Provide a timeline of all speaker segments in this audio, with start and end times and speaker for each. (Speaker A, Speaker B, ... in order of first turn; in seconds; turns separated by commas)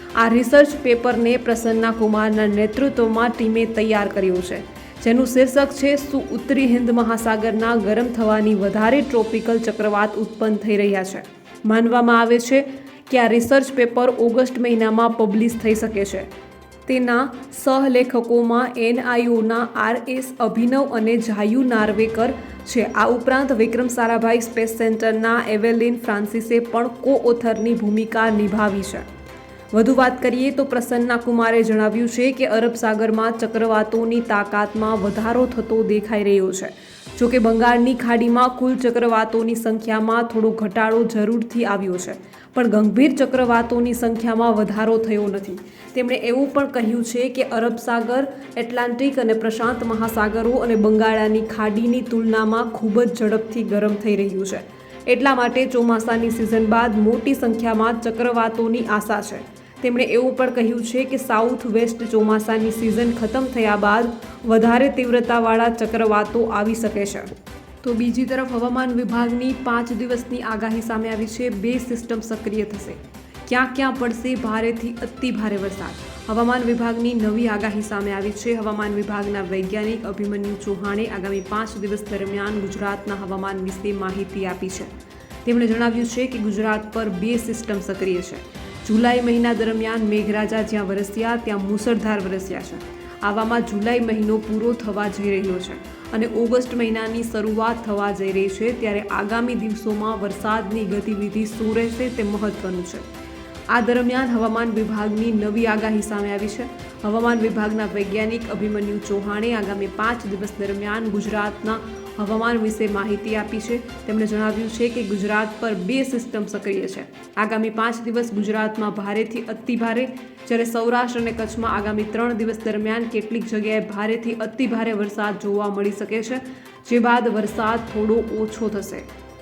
Speaker A: 0.2-16.3, Speaker A: 16.9-29.1, Speaker A: 29.7-67.3, Speaker A: 67.8-84.9, Speaker A: 85.5-103.0, Speaker A: 103.7-129.1